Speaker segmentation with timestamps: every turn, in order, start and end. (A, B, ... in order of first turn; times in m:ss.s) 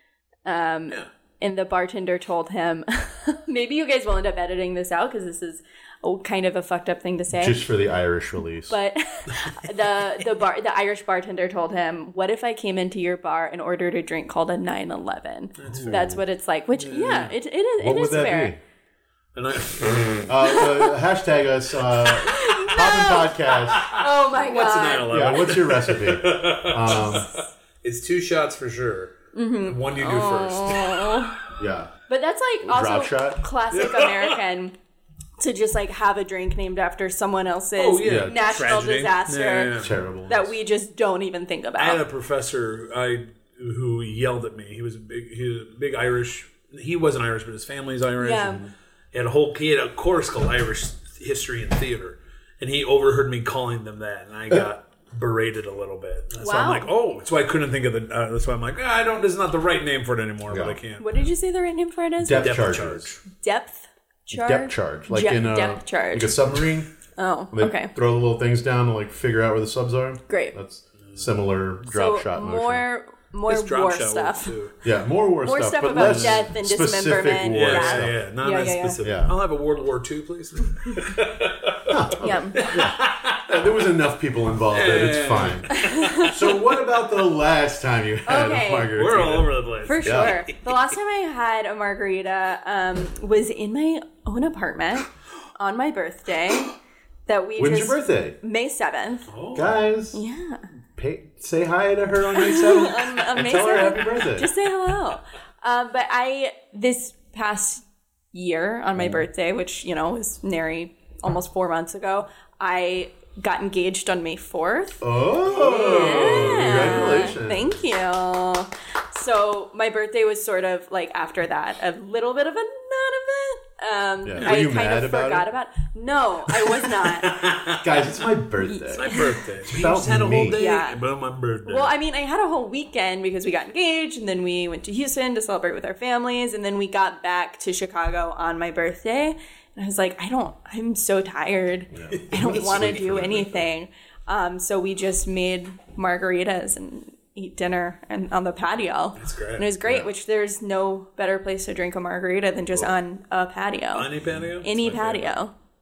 0:00.4-0:07.7 A
0:07.3-0:08.8 B
0:08.7-0:18.6 A
0:15.6-0:16.1 C
0:15.7-0:16.2 B
0:16.7-0:17.4 C
0:17.8-0:18.6 B
0:19.4-0:20.3 C
0:20.3-0:23.9 B
0:20.4-0:20.9 A
0:22.0-0:22.2 C
0:22.3-0:25.6 A
0:23.7-0:31.5 C
0:25.0-0:27.3 B
0:29.3-0:31.4 A
0:31.6-0:31.9 B
0:32.1-0:34.8 A
0:32.6-0:33.5 B
0:33.7-0:34.4 C
0:35.4-0:39.7 A
0:37.8-0:40.0 C
0:38.0-0:38.4 B
0:39.7-0:40.5 B
0:40.3-0:42.0 A
0:41.8-1:01.1 C
0:48.2-0:48.6 A
0:56.4-0:56.9 A
1:00.5-1:00.8 B
1:01.0-1:02.6 A
1:02.2-1:03.2 B
1:02.4-1:03.2 C
1:03.4-1:06.5 A
1:04.3-1:06.9 B
1:07.2-1:07.9 A
1:07.5-1:12.8 B
1:10.3-1:10.6 A
1:11.0-1:11.3 C
1:11.9-1:14.6 A
1:13.5-1:14.7 C
1:14.8-1:18.2 B
1:15.4-1:19.0 A
1:15.9-1:16.4 C
1:17.5-1:23.9 C
1:19.0-1:19.4 B
1:21.9-1:30.4 B
1:22.2-1:22.6 A
1:24.7-1:26.7 C
1:25.7-1:26.3 A
1:28.3-1:29.0 A
1:28.9-1:30.7 C
1:29.8-1:36.8 A
1:37.3-1:39.3 A
1:37.6-1:38.4 B
1:39.3-1:39.7 C
1:39.6-1:40.2 B
1:40.1-1:40.7 A
1:41.0-1:44.5 B
1:42.3-2:07.3 A
1:55.0-1:57.9 B
1:55.5-1:57.4 C
2:04.2-2:05.5 B
2:06.7-2:07.8 C
2:07.8-2:09.1 B
2:08.7-2:09.4 A
2:08.9-2:11.9 C
2:09.6-2:10.6 B
2:10.5-2:11.0 A
2:11.7-2:34.1 A
2:21.9-2:23.6 B
2:22.3-2:23.4 C
2:29.2-2:29.7 C
2:29.8-2:30.1 B
2:33.9-2:35.4 C
2:34.6-2:35.5 A